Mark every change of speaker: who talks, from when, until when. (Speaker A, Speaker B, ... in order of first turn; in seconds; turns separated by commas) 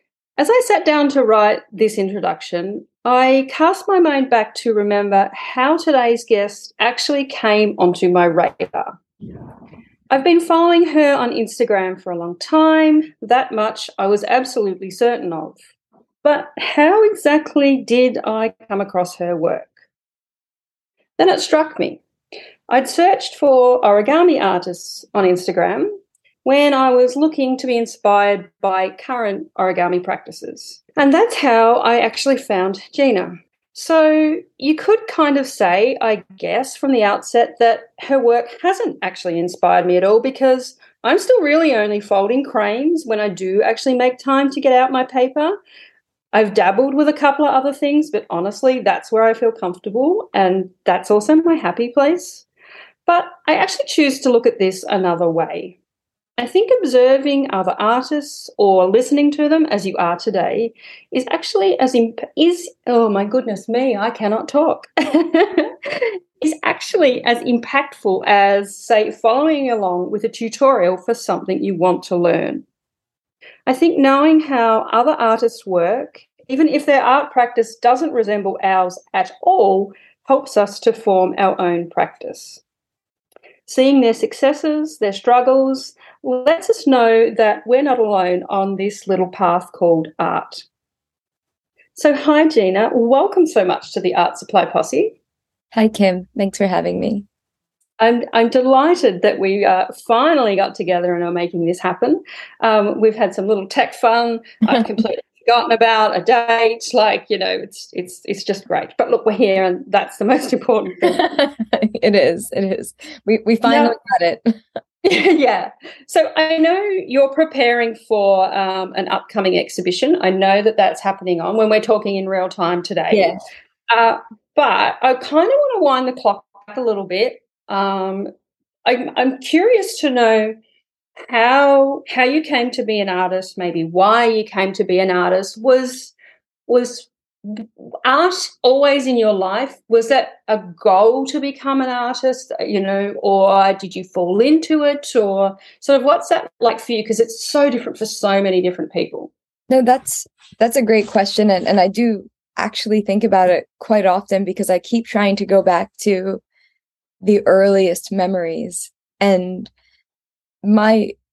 Speaker A: 0.4-8.9, Speaker A: 10.1-15.6, Speaker A: 16.2-19.7, Speaker A: 21.2-22.0, Speaker A: 22.7-45.6, Speaker A: 46.3-52.5, Speaker A: 53.1-55.8, Speaker A: 56.4-72.7, Speaker A: 73.7-82.6, Speaker A: 83.7-90.7, Speaker A: 92.0-95.2, Speaker B: 95.7-97.3, Speaker A: 98.0-111.2, Speaker B: 111.0-114.6, Speaker A: 113.6-114.0, Speaker A: 115.0-123.4, Speaker B: 123.1-123.4, Speaker A: 123.9-128.3, Speaker A: 128.8-130.6, Speaker A: 131.3-136.1, Speaker A: 136.7-149.3, Speaker B: 149.7-156.4, Speaker B: 157.2-159.7, Speaker B: 160.6-161.2